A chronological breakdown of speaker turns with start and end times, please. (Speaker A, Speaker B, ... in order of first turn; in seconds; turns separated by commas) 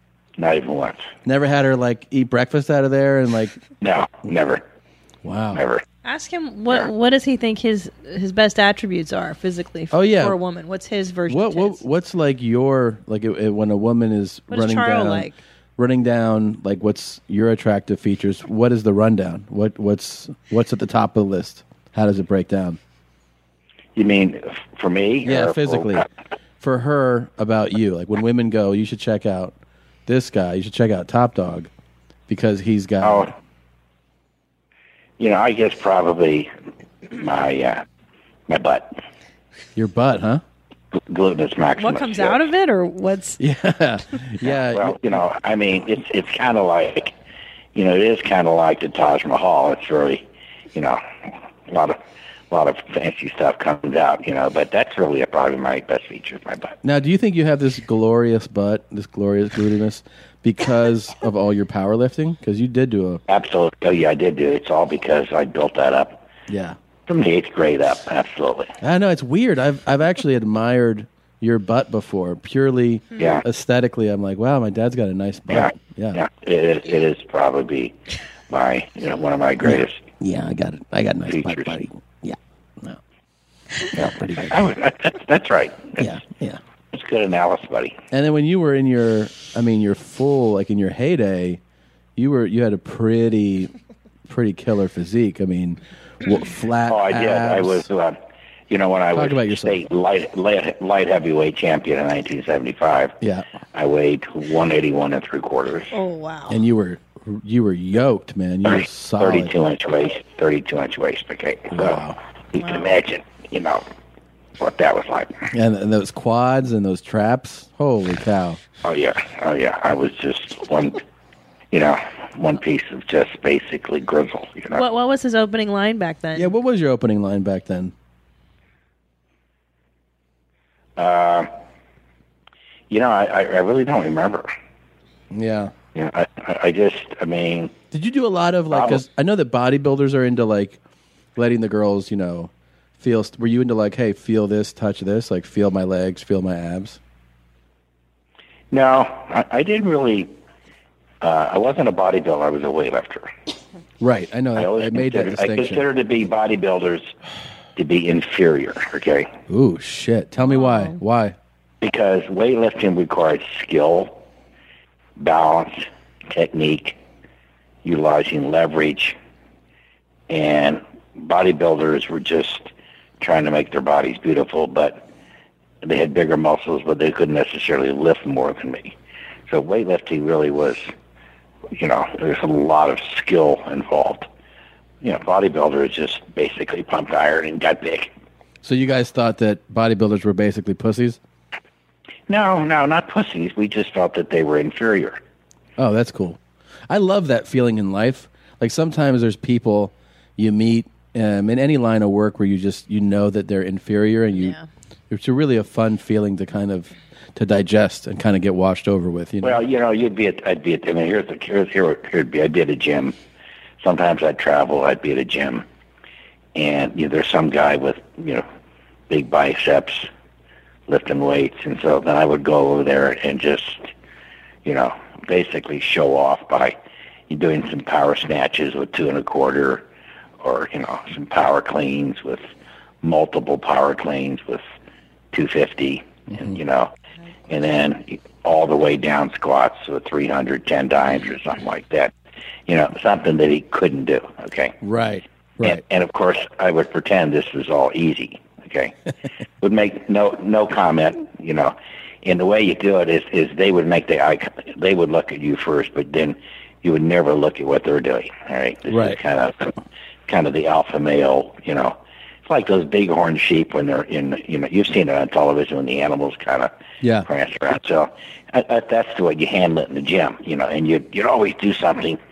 Speaker A: 0.4-1.1, Speaker B: 1.2-3.6, Speaker A: 3.8-4.6, Speaker B: 5.2-5.6, Speaker A: 5.5-5.8, Speaker C: 6.0-11.8, Speaker B: 9.9-10.4, Speaker B: 11.3-22.8, Speaker C: 14.5-15.4, Speaker A: 23.9-26.1, Speaker B: 25.2-26.1, Speaker B: 26.6-31.7, Speaker B: 32.3-33.3, Speaker A: 33.0-33.3, Speaker A: 35.2-36.5, Speaker A: 37.1-37.8, Speaker A: 38.5-38.9, Speaker B: 39.8-40.4, Speaker A: 41.1-42.4, Speaker C: 41.8-43.4, Speaker B: 43.4-45.2, Speaker A: 44.4-47.1, Speaker A: 47.7-51.0, Speaker A: 51.7-52.0, Speaker A: 52.5-56.8, Speaker B: 56.8-63.2, Speaker A: 63.3-66.2, Speaker B: 66.5-66.8, Speaker A: 67.1-68.7, Speaker B: 68.8-76.2, Speaker A: 73.2-73.4, Speaker A: 75.5-77.9, Speaker A: 78.5-80.0, Speaker B: 79.6-83.0, Speaker A: 81.3-81.8, Speaker A: 84.0-86.2, Speaker B: 84.0-84.7, Speaker B: 86.0-86.6, Speaker A: 86.9-88.0, Speaker B: 88.1-91.6, Speaker B: 92.2-93.7, Speaker B: 94.3-97.9, Speaker A: 96.9-98.2, Speaker A: 98.7-103.2, Speaker B: 99.1-99.8, Speaker A: 103.7-105.9, Speaker C: 105.9-106.6, Speaker B: 106.5-109.5, Speaker A: 108.7-112.0, Speaker B: 111.7-112.2, Speaker A: 112.5-113.8, Speaker C: 112.6-112.9, Speaker A: 114.6-115.3, Speaker B: 115.5-118.6, Speaker A: 118.8-121.0, Speaker A: 121.7-124.8, Speaker C: 124.7-126.5, Speaker B: 126.3-127.9, Speaker A: 131.0-131.5, Speaker A: 132.9-134.5, Speaker B: 135.3-135.7, Speaker A: 135.9-137.7, Speaker B: 137.9-140.8, Speaker A: 138.7-139.0, Speaker B: 141.3-147.0, Speaker A: 148.7-150.3, Speaker A: 151.2-153.3, Speaker B: 154.0-155.8, Speaker A: 154.6-157.1, Speaker A: 157.8-159.3, Speaker B: 159.5-161.3, Speaker C: 160.4-161.0, Speaker A: 161.8-164.2, Speaker A: 165.2-167.0, Speaker A: 167.8-169.2, Speaker A: 170.3-175.0, Speaker A: 175.8-178.9, Speaker A: 179.5-180.9, Speaker A: 181.8-184.3, Speaker A: 185.0-188.1, Speaker B: 188.6-191.2, Speaker A: 192.3-195.2, Speaker B: 195.8-204.6, Speaker C: 204.3-204.7, Speaker B: 205.1-209.6, Speaker A: 209.4-213.1, Speaker A: 213.8-215.6, Speaker A: 216.6-218.4, Speaker A: 219.1-220.1, Speaker A: 220.9-223.9, Speaker A: 224.6-226.8, Speaker A: 227.3-229.8, Speaker A: 230.4-232.4, Speaker A: 233.0-234.6, Speaker A: 235.3-236.9, Speaker B: 236.3-236.6, Speaker A: 237.5-242.1, Speaker A: 242.7-244.8, Speaker B: 244.8-245.8, Speaker A: 245.6-248.9, Speaker A: 249.6-259.7, Speaker B: 258.9-259.2, Speaker A: 260.3-266.7, Speaker B: 267.0-267.3, Speaker A: 267.2-272.2